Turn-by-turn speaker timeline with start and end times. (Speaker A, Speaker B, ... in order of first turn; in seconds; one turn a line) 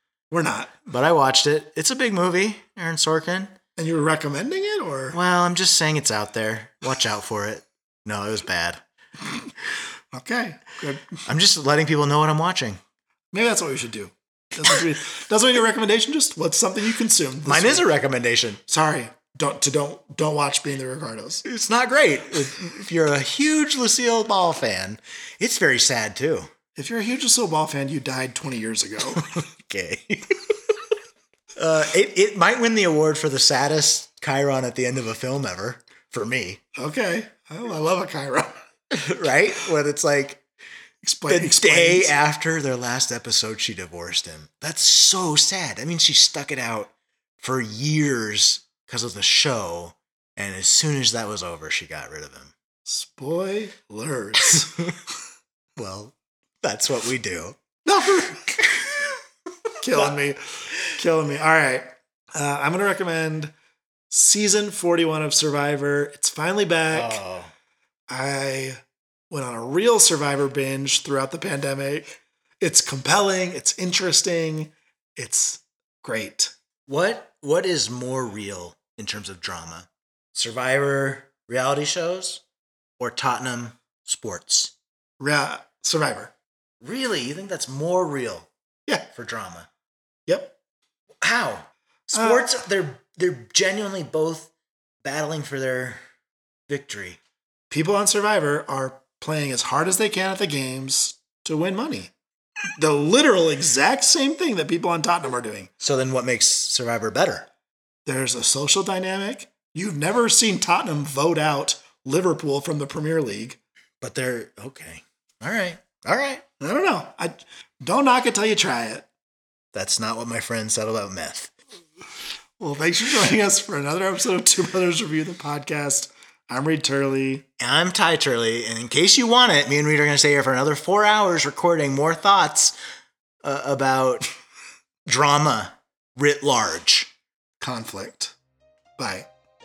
Speaker A: 0.3-0.8
Speaker B: 0.9-3.5
Speaker A: 3.8-5.2
Speaker B: 5.1-8.8
Speaker A: 10.1-11.2
Speaker B: 11.3-12.8
Speaker A: 13.3-17.9
Speaker B: 17.4-18.6
Speaker A: 18.7-21.4
Speaker B: 21.4-26.5
Speaker A: 26.7-29.2
Speaker B: 29.1-30.6
Speaker B: 31.6-36.6
Speaker A: 36.8-38.5
Speaker B: 38.9-40.4
Speaker A: 41.0-42.2
Speaker B: 41.3-52.5
Speaker A: 52.9-54.8
Speaker B: 54.5-54.9
Speaker B: 55.8-57.6
Speaker A: 57.8-58.5
Speaker B: 58.6-58.9
Speaker A: 59.8-63.5
Speaker A: 64.1-67.2
Speaker B: 66.9-67.5
Speaker A: 68.1-76.5
Speaker B: 76.9-82.4
Speaker B: 83.0-84.7
Speaker A: 85.2-86.3
Speaker B: 86.8-88.5
Speaker B: 89.1-89.7
Speaker A: 90.3-90.5
Speaker B: 91.2-94.5
Speaker A: 92.1-92.5
Speaker B: 95.0-96.0
Speaker B: 96.7-97.2
Speaker A: 97.7-102.1
Speaker A: 102.8-105.7
Speaker B: 105.8-107.5
Speaker A: 108.0-113.6
Speaker B: 114.0-116.4
Speaker A: 116.6-119.1
Speaker B: 119.7-121.5
Speaker A: 122.6-127.5
Speaker B: 127.6-132.8
Speaker B: 133.4-134.3
Speaker B: 135.1-137.1
Speaker A: 137.6-138.3
Speaker A: 139.0-139.3